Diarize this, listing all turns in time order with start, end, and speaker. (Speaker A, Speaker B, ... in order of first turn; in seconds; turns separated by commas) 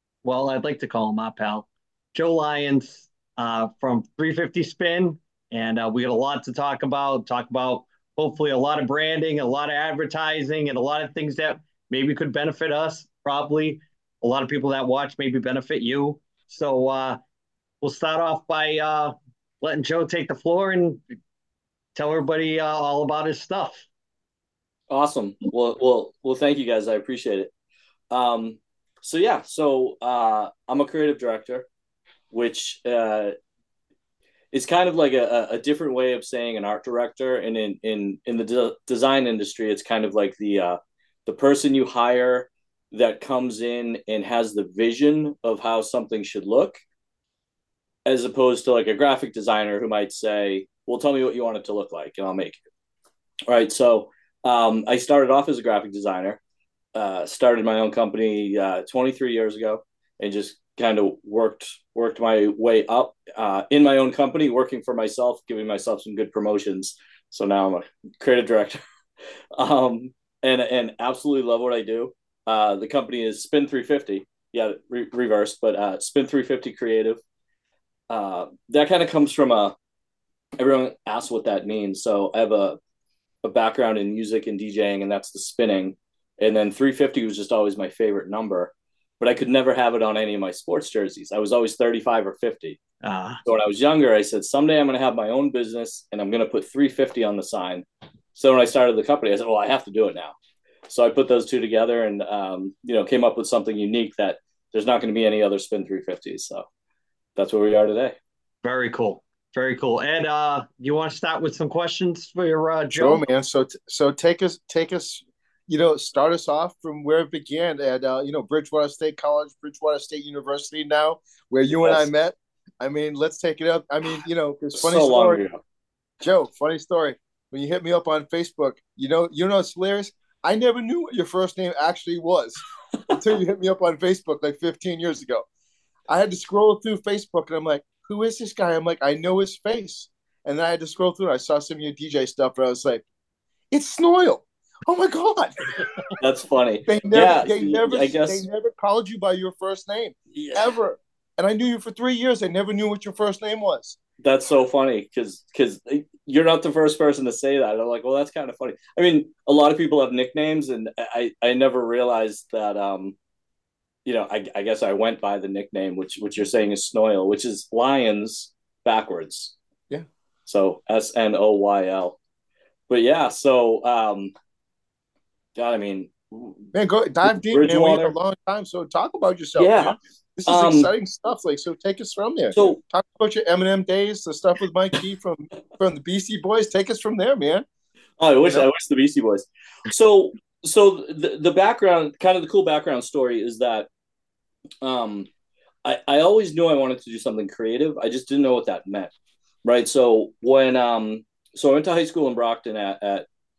Speaker A: 0.2-17.2, Speaker A: 17.8-21.0, Speaker A: 21.9-23.9, Speaker B: 24.9-27.5, Speaker B: 28.1-31.7, Speaker B: 32.3-33.3, Speaker B: 34.5-46.8, Speaker B: 48.1-52.6, Speaker B: 53.5-56.4, Speaker B: 57.0-68.8, Speaker B: 69.6-77.2, Speaker B: 78.1-79.8, Speaker B: 80.6-82.8, Speaker B: 83.4-92.8, Speaker A: 93.0-93.4, Speaker B: 93.5-100.4, Speaker B: 100.9-106.7, Speaker B: 107.4-108.2, Speaker A: 108.6-113.2, Speaker C: 113.0-125.4, Speaker B: 121.8-122.1, Speaker B: 124.7-125.6, Speaker C: 126.2-135.5, Speaker C: 136.1-143.0, Speaker C: 143.7-145.8, Speaker B: 146.2-148.4, Speaker C: 146.9-154.0, Speaker B: 150.3-150.7, Speaker B: 154.2-163.2, Speaker B: 164.1-169.6, Speaker B: 170.5-172.2, Speaker B: 172.9-174.3, Speaker B: 175.6-176.7, Speaker C: 176.7-187.7, Speaker B: 177.5-178.2, Speaker B: 179.6-180.9, Speaker B: 182.5-182.8, Speaker B: 188.2-193.9, Speaker B: 194.8-195.3, Speaker B: 195.8-199.1, Speaker B: 199.6-203.3